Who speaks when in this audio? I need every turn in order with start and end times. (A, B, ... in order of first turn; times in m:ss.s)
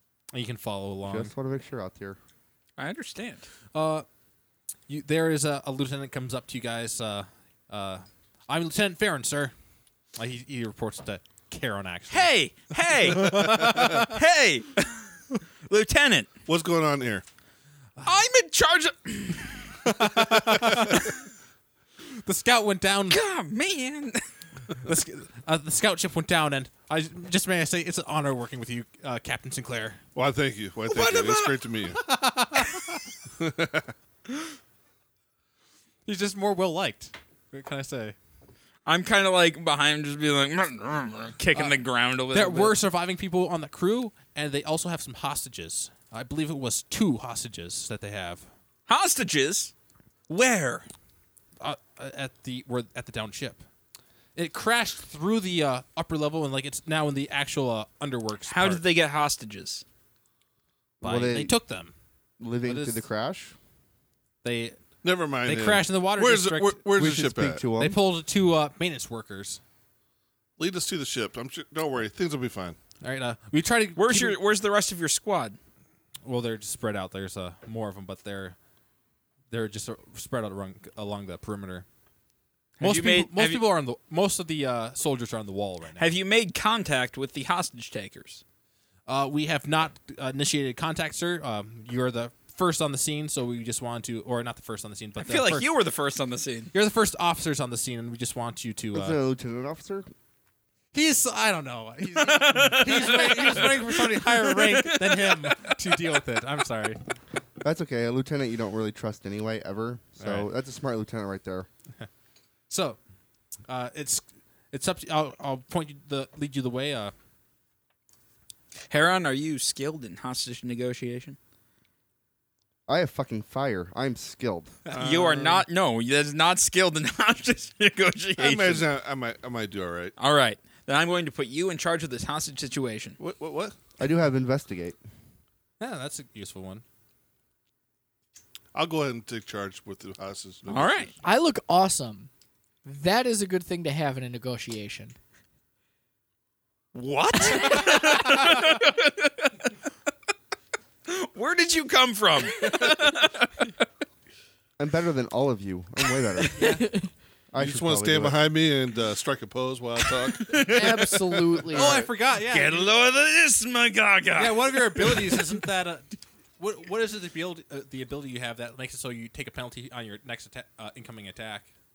0:00.3-0:01.3 A
0:01.0-0:02.2 B
0:02.8-0:03.5 C
0:03.7-0:04.0 A
0:04.9-0:09.5 A
0:10.2-0:12.3 A
0:12.1-0:15.1 C
0:12.9-0:14.2 A
0:13.3-0:13.8 D
0:15.7-0:16.3 C
0:16.4-0:17.2 D
0:18.0-0:19.8 C
0:19.9-0:21.1 A
0:20.5-0:21.0 D
0:22.0-0:23.2 A
0:23.1-0:24.3 C
0:24.8-0:30.0 A
0:30.1-0:32.0 D
0:30.9-0:31.6 C
0:32.0-0:33.0 A
0:33.4-0:33.9 D
0:36.0-0:38.2 A
0:38.8-0:42.8 C
0:42.3-0:48.5 A
0:48.9-0:49.7 C
0:50.3-0:50.9 C
0:51.6-0:53.6 A
0:54.4-0:58.8 A
0:58.5-0:59.8 C
1:01.0-1:01.6 B
1:01.0-1:01.9 A
1:02.4-1:03.6 B
1:02.6-1:03.0 A
1:04.4-1:04.8 A
1:05.0-1:07.6 D
1:05.4-1:09.6 A
1:07.2-1:08.0 B
1:10.6-1:12.8 D
1:13.0-1:14.4 A
1:14.0-1:15.6 C
1:16.2-1:18.6 A
1:19.5-1:21.8 A
1:22.8-1:23.6 C
1:22.8-1:26.1 A
1:26.0-1:28.4 C
1:29.1-1:35.7 A
1:35.2-1:36.7 C
1:36.7-1:39.2 A
1:38.9-1:40.1 B
1:40.9-1:47.0 A
1:42.2-1:46.0 C
1:47.6-1:51.7 B
1:50.2-1:50.5 A
1:52.7-1:53.0 A
1:53.7-1:57.1 A
1:58.9-2:01.4 C
2:02.9-2:04.8 B
2:04.9-2:05.6 D
2:05.0-2:08.8 C
2:08.4-2:10.1 D
2:10.2-2:13.2 C
2:13.2-2:13.8 D
2:14.0-2:15.0 B
2:15.8-2:16.8 A
2:18.7-2:21.1 D
2:20.7-2:21.1 C
2:21.2-2:22.3 E
2:22.8-2:25.1 E
2:26.9-2:29.5 C
2:27.4-2:28.3 E
2:31.1-2:33.7 C
2:34.8-2:36.8 B
2:36.6-2:36.8 A
2:36.6-2:37.1 E
2:37.5-2:38.4 B
2:37.6-2:41.0 D
2:40.1-2:41.2 C
2:40.7-2:42.0 E
2:41.7-2:42.9 A
2:41.8-2:45.6 C
2:44.4-2:51.7 A